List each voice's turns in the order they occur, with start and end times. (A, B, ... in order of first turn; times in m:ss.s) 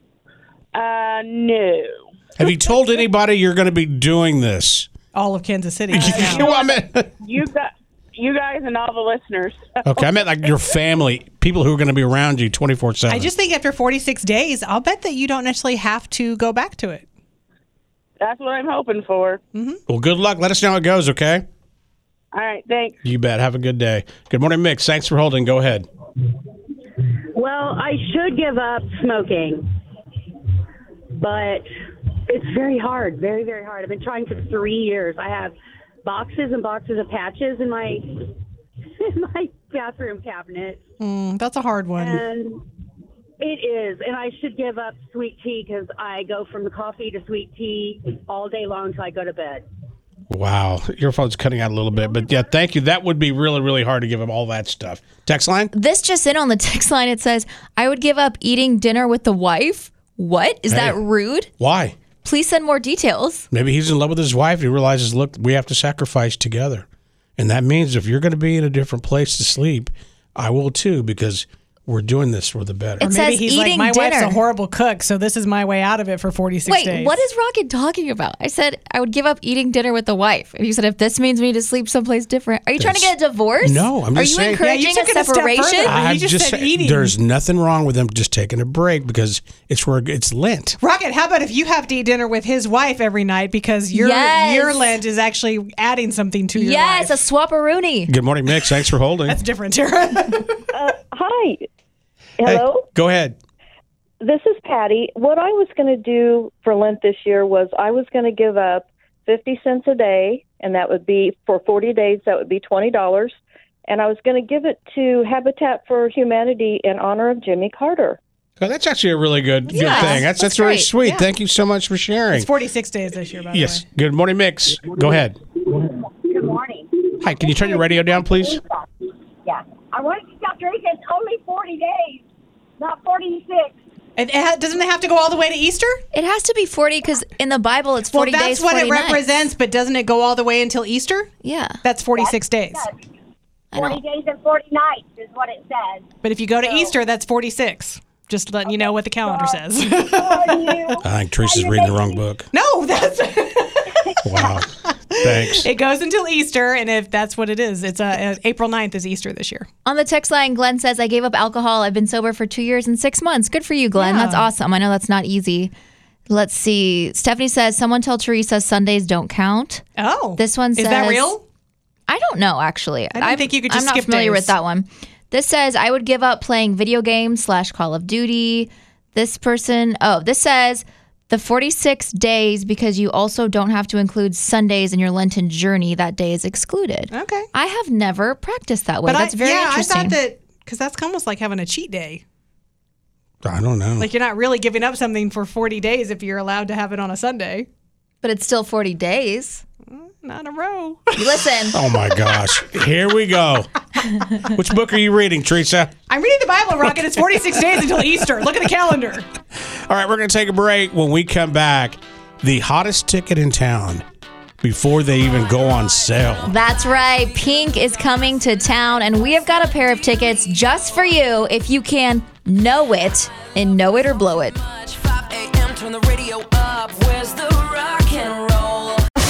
0:00.7-0:01.9 A
0:02.4-0:04.9 B
0:05.1-0:06.5 C
0:05.9-0:10.1 A
0:06.0-0:07.1 B
0:09.8-0:13.3 B
0:13.1-0:17.0 C
0:18.2-0:19.4 A
0:19.9-0:21.4 B
0:22.3-0:23.0 A
0:23.0-0:25.9 B
0:27.3-0:29.7 D
0:31.2-0:31.7 D
0:32.3-0:38.4 D
0:39.0-0:40.8 D
0:41.0-0:42.2 C
0:42.0-0:42.6 D
0:43.4-0:49.7 D
0:50.3-0:55.7 B
0:55.7-1:01.5 E
1:00.7-1:01.0 B
1:01.6-1:02.0 B
1:02.2-1:03.5 E
1:03.5-1:06.8 B
1:07.4-1:13.0 B
1:13.0-1:14.4 E
1:13.0-1:17.2 C
1:16.7-1:26.0 E
1:22.8-1:23.1 B
1:23.6-1:24.6 B
1:24.6-1:27.2 C
1:25.8-1:30.8 B
1:30.8-1:37.2 C
1:33.9-1:35.0 E
1:36.6-1:38.1 E
1:38.1-1:39.4 B
1:38.5-1:40.7 C
1:40.7-1:41.7 F
1:42.4-1:42.9 F
1:42.4-1:43.4 B
1:44.2-1:58.2 F
1:58.6-2:02.5 B
1:59.7-2:00.9 E
1:59.9-2:00.2 C
2:01.0-2:01.3 C
2:02.3-2:03.8 C
2:03.5-2:05.4 B
2:06.1-2:06.9 G
2:07.2-2:08.6 B
2:07.4-2:07.9 G
2:08.6-2:08.8 G
2:09.4-2:12.2 G
2:12.8-2:13.7 G
2:14.2-2:16.0 C
2:16.1-2:19.2 E
2:18.1-2:21.3 C
2:21.4-2:21.8 E
2:21.8-2:22.9 C
2:22.2-2:22.9 G
2:23.7-2:24.0 E
2:23.8-2:26.0 G
2:26.2-2:31.0 C
2:26.6-2:26.9 G
2:28.7-2:29.6 G
2:30.1-2:32.2 G
2:31.0-2:32.5 B
2:32.5-2:39.7 C
2:34.2-2:35.7 B
2:39.8-2:45.7 E
2:44.0-2:44.5 C
2:46.3-2:49.8 E
2:50.0-2:51.4 C
2:50.4-2:51.4 E
2:52.1-3:10.2 E
2:53.1-2:54.5 C
3:07.1-3:07.5 C
3:09.1-3:12.2 C
3:13.4-3:14.1 B
3:14.0-3:17.7 C
3:18.2-3:19.6 E
3:19.9-3:21.3 C
3:21.2-3:21.8 E
3:21.7-3:23.8 B
3:22.0-3:22.3 C
3:24.3-3:25.9 B
3:26.1-3:29.3 C
3:29.9-3:34.0 B
3:34.6-3:36.5 B
3:36.5-3:44.6 E
3:45.4-3:48.8 H